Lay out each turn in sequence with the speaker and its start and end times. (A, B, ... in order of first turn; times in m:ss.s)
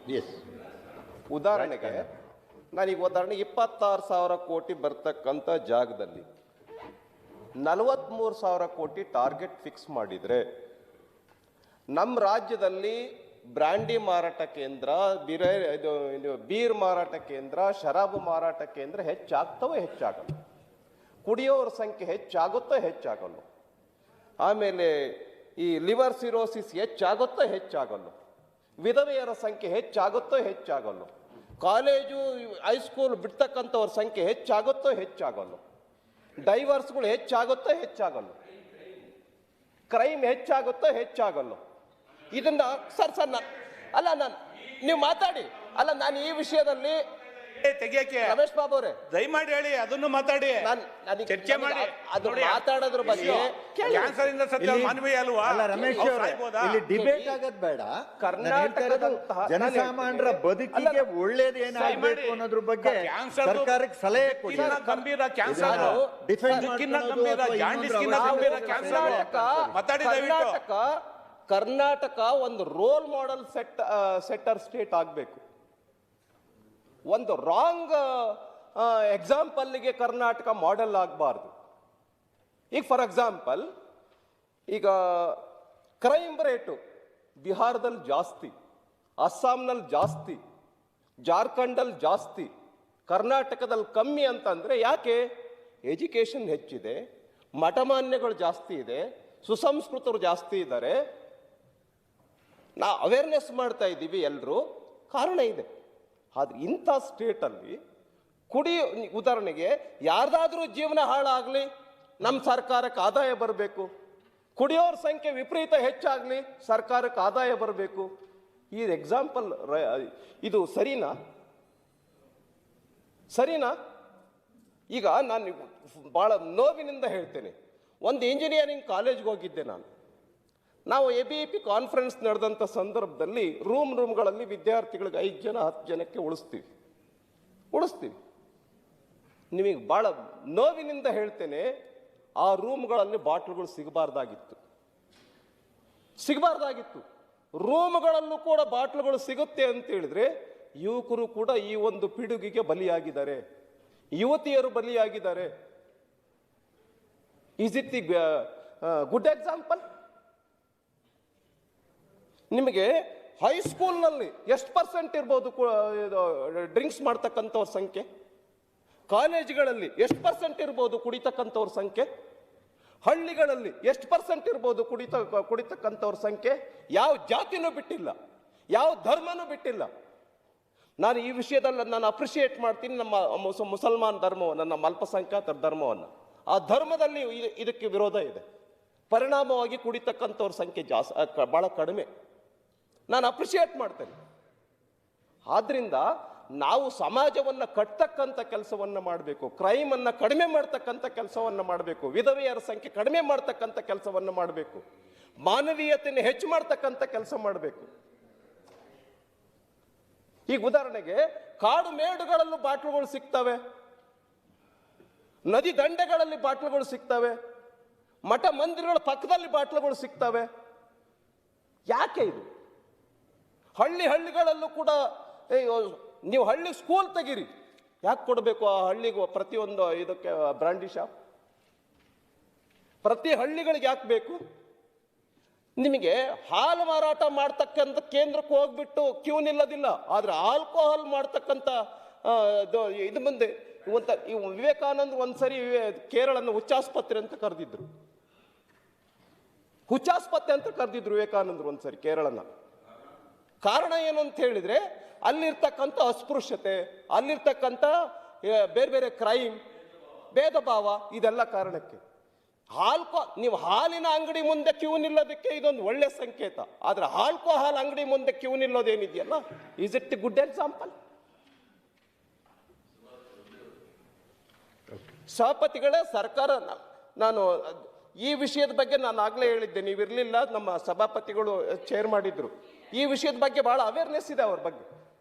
0:00.1-0:00.4 A
0:01.3-0:02.1 B
0:01.6-0:02.0 A
0:02.7-0:06.2 B
0:07.6-0:10.4 B
0:11.9-0:13.0 B
0:13.5-0:20.3 B
0:21.2-0:23.4 B
0:24.4-0:28.1 B
0:28.8-0:31.1 B
0:31.6-0:35.6 B
0:36.4-0:38.3 B
0:39.9-0:41.6 B
0:42.3-0:47.0 B
0:47.6-0:48.4 C
0:48.2-0:49.0 B
0:49.1-0:50.7 C
0:50.6-0:54.2 B
0:51.3-0:56.9 C
0:54.6-1:04.8 A
0:55.7-0:56.1 B
0:56.9-0:57.4 B
0:58.2-1:01.0 B
1:01.7-1:02.1 B
1:01.7-1:10.6 C
1:04.5-1:06.7 B
1:05.4-1:09.7 A
1:08.1-1:10.9 B
1:11.5-1:15.4 B
1:17.1-1:21.5 B
1:22.7-1:23.7 B
1:24.7-1:25.4 B
1:26.0-1:26.8 B
1:27.4-1:28.5 B
1:29.2-1:30.4 B
1:31.2-1:32.5 B
1:33.1-1:35.2 B
1:35.9-1:37.0 B
1:37.6-1:41.0 B
1:42.8-1:45.7 B
1:46.3-1:47.8 B
1:48.5-1:51.7 B
1:52.2-1:53.9 B
1:54.6-1:58.1 B
1:58.7-2:01.1 B
2:03.3-2:03.7 B
2:04.9-2:07.5 B
2:08.0-2:09.8 B
2:10.9-2:16.6 B
2:17.7-2:18.1 B
2:19.5-2:21.7 B
2:22.4-2:24.6 B
2:26.2-2:27.0 B
2:27.6-2:33.4 B
2:34.2-2:35.5 B
2:37.6-2:39.8 B
2:42.5-2:48.0 B
2:49.1-2:52.1 B
2:53.0-2:58.1 B
2:58.7-2:59.9 B
3:01.0-3:08.4 B
3:09.1-3:12.1 B
3:13.1-3:14.2 B
3:15.5-3:16.0 B
3:16.6-3:24.8 B
3:25.4-3:27.9 B
3:30.5-3:33.6 B
3:35.5-3:37.4 B
3:38.3-3:40.5 B
3:41.9-3:42.4 B
3:43.8-3:45.0 B
3:45.5-3:47.5 B
3:48.0-3:51.1 B
3:53.0-3:54.4 B
3:55.8-4:07.8 B
4:09.9-4:12.4 B
4:13.6-4:19.6 B
4:20.3-4:22.0 B
4:22.7-4:30.9 B
4:35.3-4:44.8 B